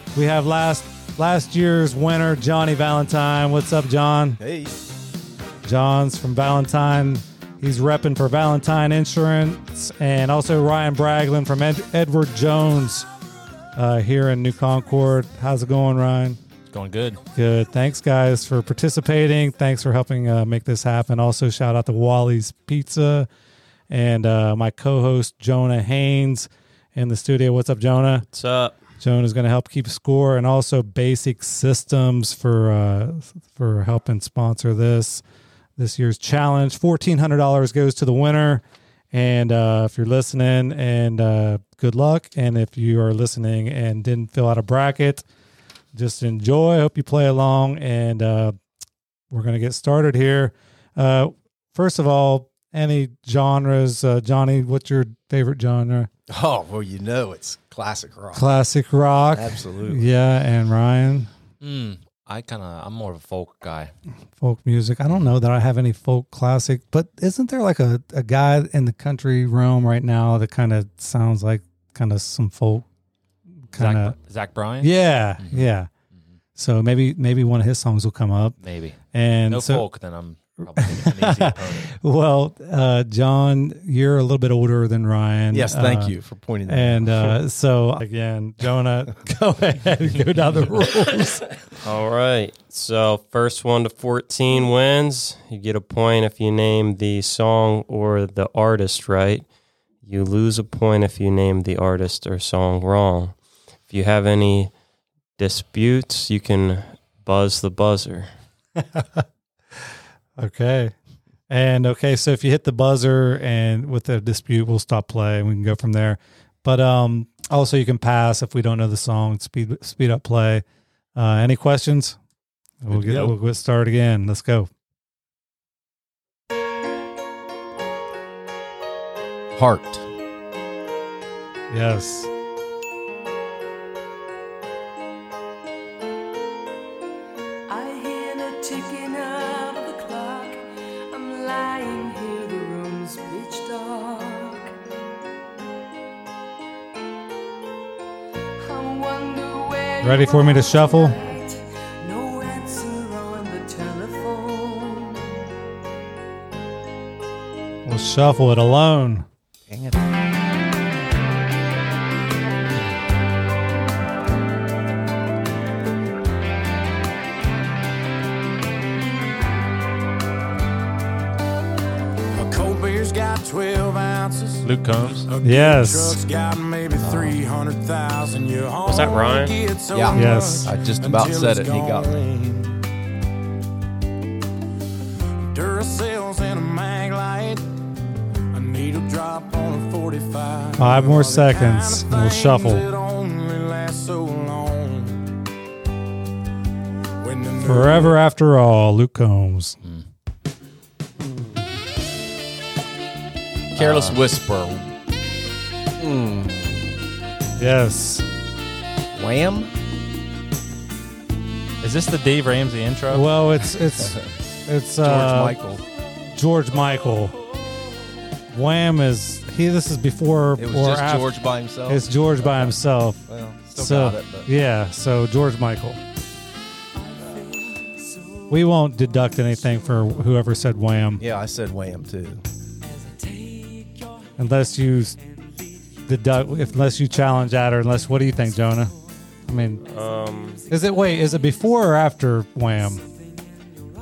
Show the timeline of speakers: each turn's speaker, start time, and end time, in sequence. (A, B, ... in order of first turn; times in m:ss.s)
0:00.1-0:04.4 A
0:04.4-0:04.8 B
0:05.6-0:13.1 A
0:13.8-0:16.4 A
0:16.7-0:17.2 C
0:17.4-0:23.3 A
0:23.9-0:28.2 A
0:28.3-0:28.8 D
0:29.0-0:35.2 A
0:35.8-0:45.2 A
0:45.9-0:48.5 A
0:49.3-0:56.1 A
0:56.3-0:58.5 B
0:58.3-1:01.3 A
0:59.3-1:00.1 B
1:01.6-1:03.9 C
1:04.4-1:12.8 A
1:13.7-1:14.1 A
1:13.7-1:15.7 C
1:14.8-1:15.9 A
1:16.6-1:18.6 A
1:18.6-1:22.0 C
1:19.1-1:19.9 A
1:20.8-1:26.2 A
1:25.5-1:27.3 B
1:26.7-1:31.5 A
1:31.8-1:39.4 D
1:40.0-1:43.3 D
1:43.9-1:44.7 D
1:45.4-1:48.3 D
1:48.9-1:49.2 A
1:50.4-1:50.9 A
1:51.5-2:00.6 A
2:01.2-2:02.2 A
2:02.8-2:04.7 A
2:02.9-2:03.3 B
2:09.5-2:10.0 B
2:11.7-2:12.3 A
2:17.7-2:24.7 E
2:28.6-2:35.2 E
2:30.0-2:31.2 A
2:37.8-2:39.2 A
2:39.7-2:40.1 B
2:52.3-2:54.6 F
2:54.6-2:55.3 C
2:55.3-3:02.7 F
2:55.4-2:56.2 A
2:57.0-2:57.4 C
2:58.8-2:59.6 D
2:59.9-3:02.3 B
3:00.1-3:00.7 A
3:05.4-3:07.6 F
3:08.5-3:15.3 F
3:10.8-3:12.9 A
3:17.2-3:18.2 F
3:17.6-3:19.8 A
3:23.7-3:24.9 B
3:23.8-3:24.2 C
3:26.0-3:26.9 B
3:27.6-3:28.2 A
3:29.1-3:29.7 B
3:31.8-3:33.4 C
3:33.1-3:35.6 A
3:35.0-3:35.8 B
3:36.3-3:37.3 A
3:38.5-3:46.0 A
3:40.6-3:44.5 B
3:48.5-3:51.2 A
3:51.2-3:52.4 B
3:53.1-3:54.1 E
3:54.4-3:55.2 A
3:56.0-3:58.9 A
3:59.5-3:59.8 A
3:59.8-4:00.7 D
4:00.7-4:03.0 A